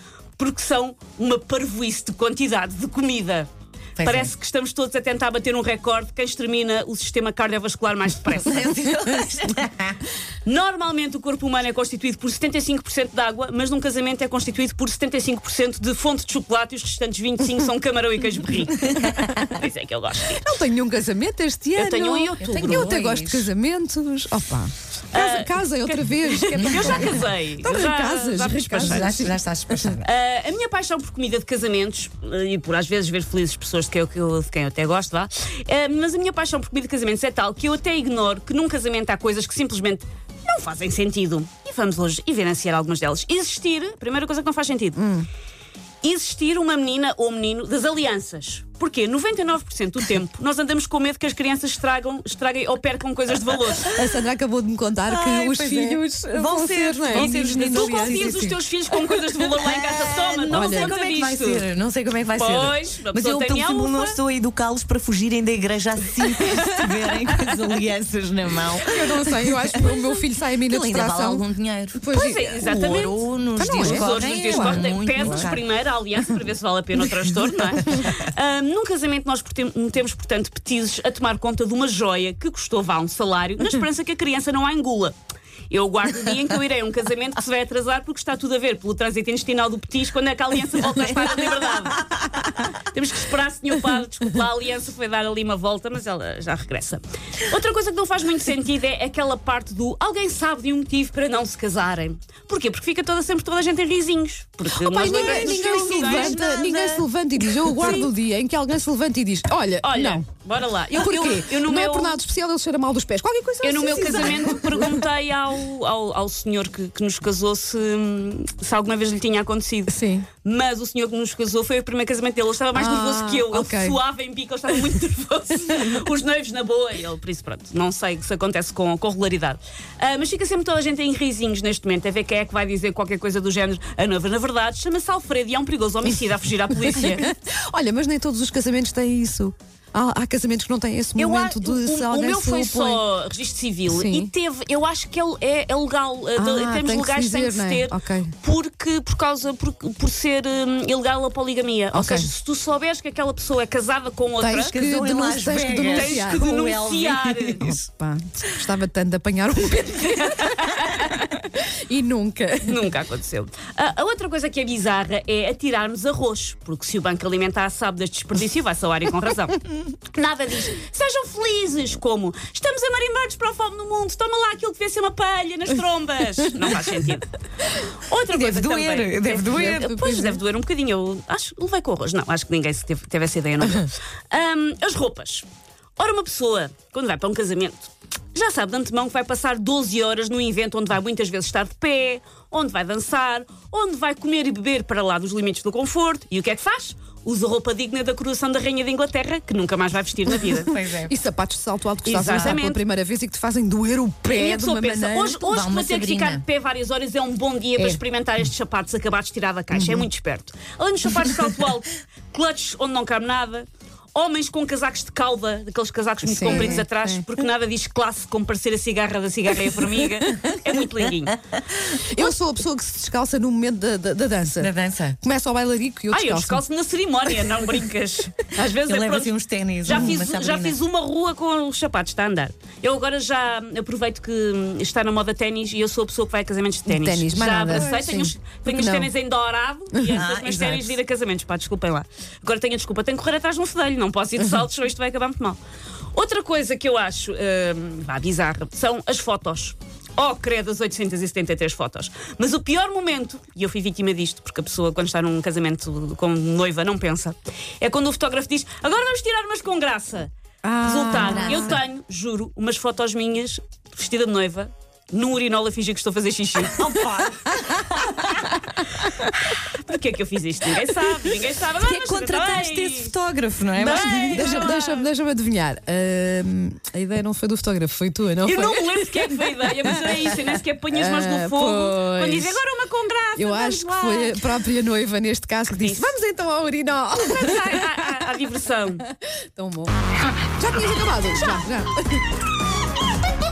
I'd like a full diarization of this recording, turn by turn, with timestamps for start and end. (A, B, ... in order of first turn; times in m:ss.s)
0:00.4-0:03.5 A
0:04.0-0:04.3 B
0:04.0-0:08.6 A
0:08.4-0:10.0 B
0:10.4-0:20.4 A
0:20.3-0:29.9 C
0:21.8-0:23.0 A
0:22.4-0:23.5 B
0:25.1-0:29.3 A
0:26.6-0:27.2 B
0:28.8-0:30.1 B
0:30.0-0:45.0 A
0:45.0-0:45.3 C
0:46.0-0:54.0 A
0:53.9-0:58.6 C
0:55.1-0:58.6 B
0:57.2-1:01.6 A
0:59.4-1:10.1 B
1:00.5-1:00.9 C
1:02.4-1:04.2 A
1:06.4-1:07.3 C
1:08.9-1:12.8 C
1:10.7-1:12.0 B
1:12.1-1:25.2 A
1:12.6-1:15.6 B
1:13.6-1:15.5 C
1:25.7-1:46.5 A
1:44.8-1:50.2 C
1:45.0-1:47.0 B
1:47.6-1:47.9 B
1:47.8-1:48.1 A
1:49.8-1:52.2 A
1:50.9-1:55.0 C
1:53.6-2:17.3 A
1:59.9-2:00.3 C
2:02.8-2:04.0 C
2:16.9-2:23.0 C
2:21.2-2:34.7 A
2:23.9-2:24.3 C
2:26.4-2:28.3 C
2:31.9-2:32.3 C
2:34.4-2:36.4 C
2:34.7-2:37.7 B
2:35.9-2:37.8 A
2:37.6-2:42.8 C
2:40.2-2:41.0 A
2:42.7-2:49.6 A
2:50.1-2:57.3 A
2:58.0-3:05.5 A
2:58.3-2:59.9 B
2:59.5-3:00.4 C
3:06.0-3:20.7 A
3:20.5-3:25.4 C
3:20.7-3:21.1 B
3:22.0-3:22.8 A
3:24.3-3:41.4 A
3:25.4-3:26.4 B
3:29.8-3:30.0 C
3:36.2-3:37.3 C
3:36.4-3:36.8 B
3:41.9-3:46.6 C
3:44.6-3:45.2 B
3:46.1-4:05.6 A
3:48.8-3:50.8 B
3:56.9-3:59.1 C
3:59.9-4:00.2 C
4:00.1-4:01.0 B
4:06.1-4:20.3 A
4:20.6-4:21.8 C
4:20.8-4:26.9 A
4:21.2-4:21.8 B
4:26.8-4:28.5 B
4:28.1-4:33.1 A
4:31.8-4:34.7 B
4:33.8-4:35.1 A
4:33.9-4:39.2 C
4:38.4-4:44.4 A
4:39.8-4:40.4 C
4:40.9-4:42.6 C
4:43.4-4:48.1 C
4:45.7-4:46.1 A
4:47.2-4:49.0 A
4:49.6-4:49.9 C
4:50.6-4:52.2 C